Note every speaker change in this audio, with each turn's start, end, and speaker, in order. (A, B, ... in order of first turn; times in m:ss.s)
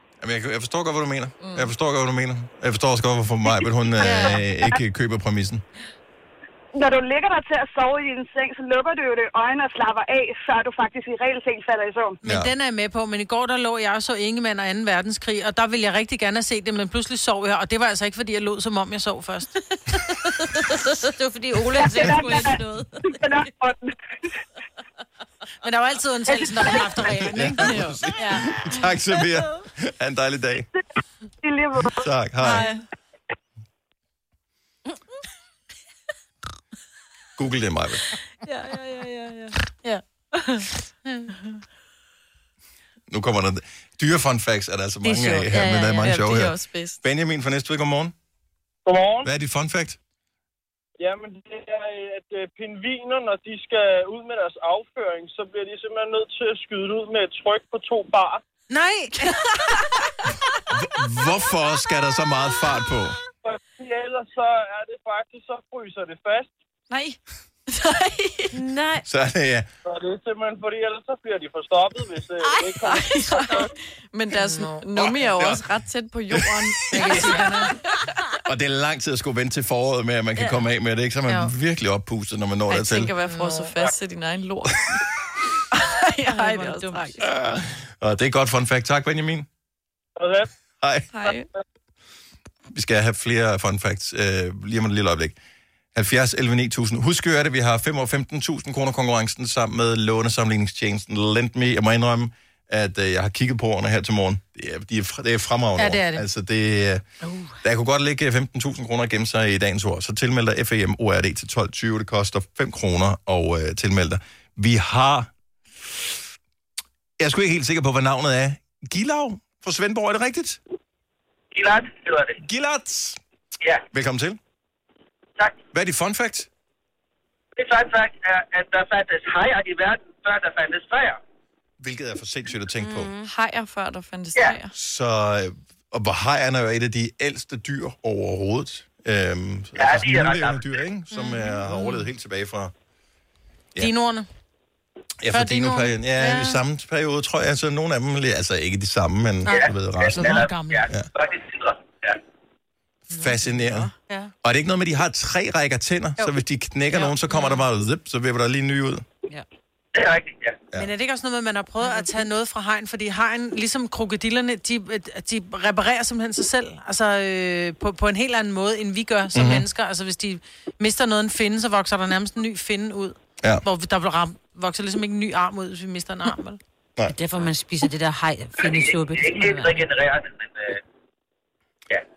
0:00.2-0:05.6 A
0:01.4-0:01.7 B
0:03.5-0:04.8 C
0:06.7-0:12.2 C
0:12.2-0:19.5 D
0:12.2-0:12.5 A
0:20.0-0:23.1 E
0:21.8-0:22.6 C
0:23.1-0:23.9 C
0:25.6-0:28.3 D
0:26.3-0:26.8 C
0:27.2-0:30.7 A
0:27.6-0:28.1 B
0:31.4-0:32.0 C
0:31.8-0:32.7 A
0:37.4-0:38.0 A
0:38.4-0:40.7 E
0:43.1-0:48.1 A
0:45.0-0:46.2 E
0:45.9-0:47.0 B
0:48.8-0:49.3 F
0:49.2-0:50.0 A
0:51.0-0:58.4 F
0:58.7-0:59.8 D
1:00.7-1:03.2 A
1:03.4-1:06.5 F
1:06.9-1:07.2 B
1:07.7-1:08.5 B
1:08.5-1:09.0 E
1:09.0-1:09.7 A
1:09.8-1:13.2 F
1:12.7-1:13.7 E
1:12.8-1:17.7 B
1:14.3-1:14.8 D
1:15.0-1:15.7 A
1:16.9-1:17.7 D
1:18.4-1:23.1 A
1:20.4-1:20.6 E
1:22.7-1:25.0 B
1:23.3-1:23.7 D
1:25.7-1:27.2 B
1:26.3-1:27.2 E
1:27.2-1:29.5 A
1:30.2-1:30.5 F
1:30.8-1:31.1 A
1:31.1-1:31.5 B
1:32.7-1:35.4 A
1:35.9-1:47.0 A
1:45.8-1:46.2 D
1:47.2-1:47.5 E
1:47.6-1:56.2 A
1:57.2-2:00.6 A
2:01.5-2:02.4 G
2:02.4-2:03.2 A
2:03.9-2:04.4 A
2:05.7-2:06.5 A
2:07.6-2:11.2 G
2:11.8-2:13.1 A
2:12.8-2:13.3 E
2:13.2-2:14.7 B
2:14.7-2:22.7 A
2:19.8-2:20.6 G
2:21.1-2:21.9 D
2:23.8-2:24.3 D
2:25.2-2:31.1 A
2:25.3-2:26.6 D
2:29.4-2:30.9 D
2:29.5-2:32.2 G
2:33.1-2:33.9 A
2:34.1-2:34.3 D
2:34.4-2:39.0 A
2:39.9-2:40.6 G
2:40.7-2:56.6 D
2:49.3-2:49.6 A
2:57.1-2:59.8 E
2:58.6-3:00.8 G